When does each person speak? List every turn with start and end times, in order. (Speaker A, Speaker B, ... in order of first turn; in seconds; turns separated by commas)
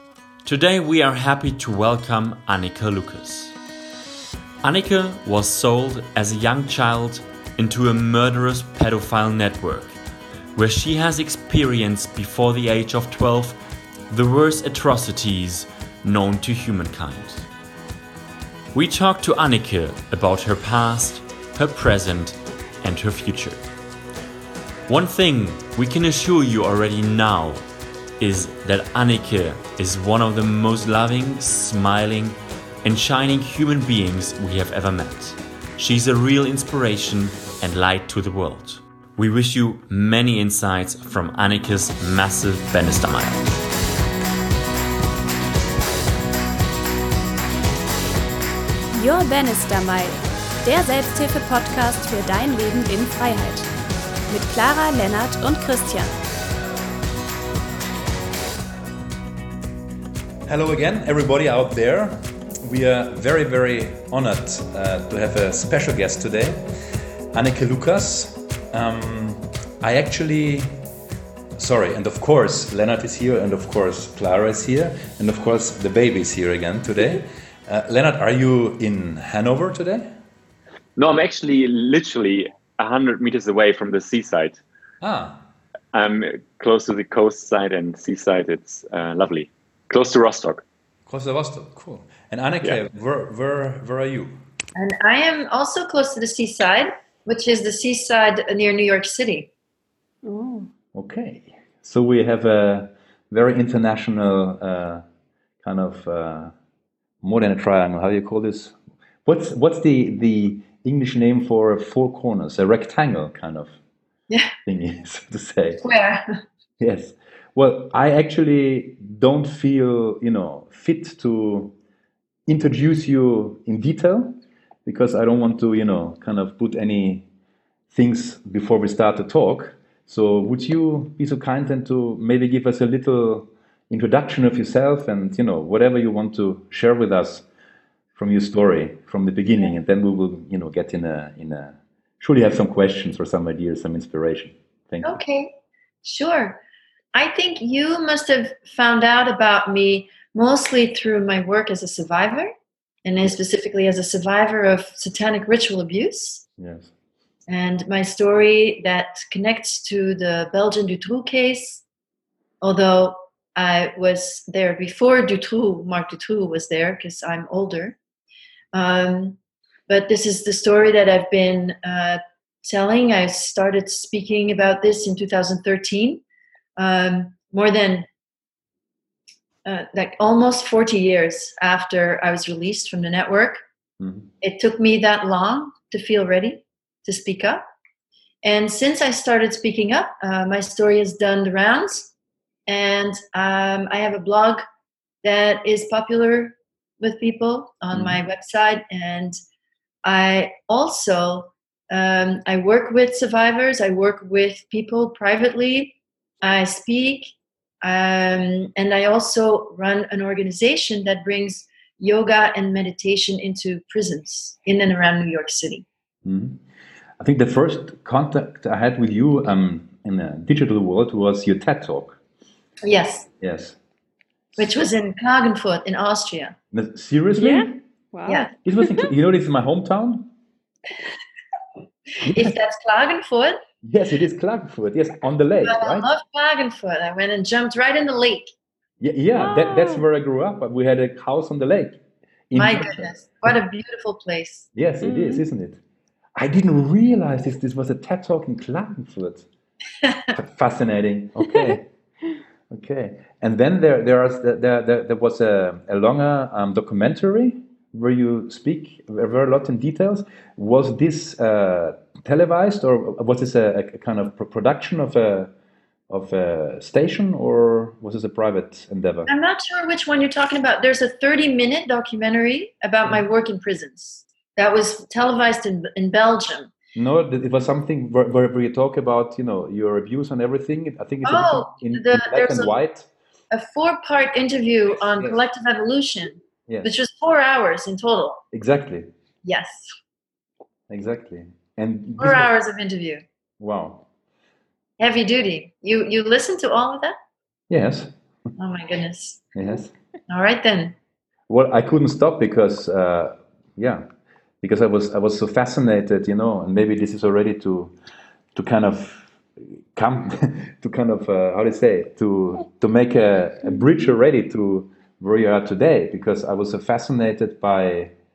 Speaker A: 0.5-3.5, Speaker A: 4.6-10.0, Speaker A: 10.6-13.6, Speaker A: 14.1-17.5, Speaker A: 18.7-23.6, Speaker A: 24.9-27.6, Speaker A: 28.2-43.6, Speaker B: 48.9-53.7, Speaker B: 54.3-56.2, Speaker C: 60.5-66.7, Speaker C: 67.3-70.8, Speaker C: 71.6-80.2, Speaker D: 81.0-84.6, Speaker C: 85.0-85.4, Speaker D: 85.9-90.6, Speaker C: 91.1-94.4, Speaker E: 94.8-99.5, Speaker B: 100.2-100.7, Speaker C: 100.9-105.0, Speaker C: 105.6-106.5, Speaker C: 107.2-113.7, Speaker C: 114.7-115.8, Speaker E: 115.8-116.3, Speaker C: 116.8-121.7, Speaker C: 122.5-127.3, Speaker C: 127.9-137.4, Speaker C: 138.2-145.2, Speaker E: 145.0-146.6, Speaker E: 147.1-152.5, Speaker E: 153.0-156.4, Speaker C: 156.6-156.9, Speaker E: 157.5-161.8, Speaker E: 162.6-168.0, Speaker E: 168.7-176.2, Speaker E: 176.8-178.1, Speaker E: 179.7-183.6, Speaker C: 184.0-184.3, Speaker E: 184.4-187.6, Speaker E: 188.4-192.1, Speaker E: 192.7-194.6, Speaker E: 195.2-199.4, Speaker C: 197.9-198.2, Speaker E: 200.0-215.9, Speaker C: 216.2-216.6, Speaker C: 217.2-222.2, Speaker E: 222.8-223.3, Speaker C: 223.4-223.8, Speaker E: 224.6-226.6, Speaker C: 226.7-227.8, Speaker B: 227.4-229.0, Speaker E: 228.3-228.5, Speaker C: 228.6-230.3, Speaker C: 232.2-232.6, Speaker E: 232.3-233.6, Speaker C: 233.8-236.1, Speaker E: 235.6-238.5, Speaker C: 239.0-243.5, Speaker B: 239.4-240.1, Speaker E: 242.6-244.7, Speaker C: 244.8-245.8, Speaker B: 245.0-245.4, Speaker C: 246.4-249.5, Speaker C: 250.3-251.9, Speaker C: 252.7-265.5, Speaker C: 266.1-269.3, Speaker E: 269.3-276.7, Speaker C: 276.9-283.1, Speaker E: 281.2-282.7, Speaker E: 283.5-288.4, Speaker C: 288.5-289.1, Speaker E: 289.4-289.9, Speaker C: 290.9-292.5, Speaker E: 292.2-293.2, Speaker C: 293.6-294.1, Speaker E: 295.0-297.2, Speaker C: 297.7-298.1, Speaker E: 298.6-299.4, Speaker C: 299.6-299.9, Speaker E: 300.3-300.9, Speaker C: 301.5-304.0, Speaker C: 304.6-307.9, Speaker C: 308.5-309.3, Speaker C: 309.9-318.1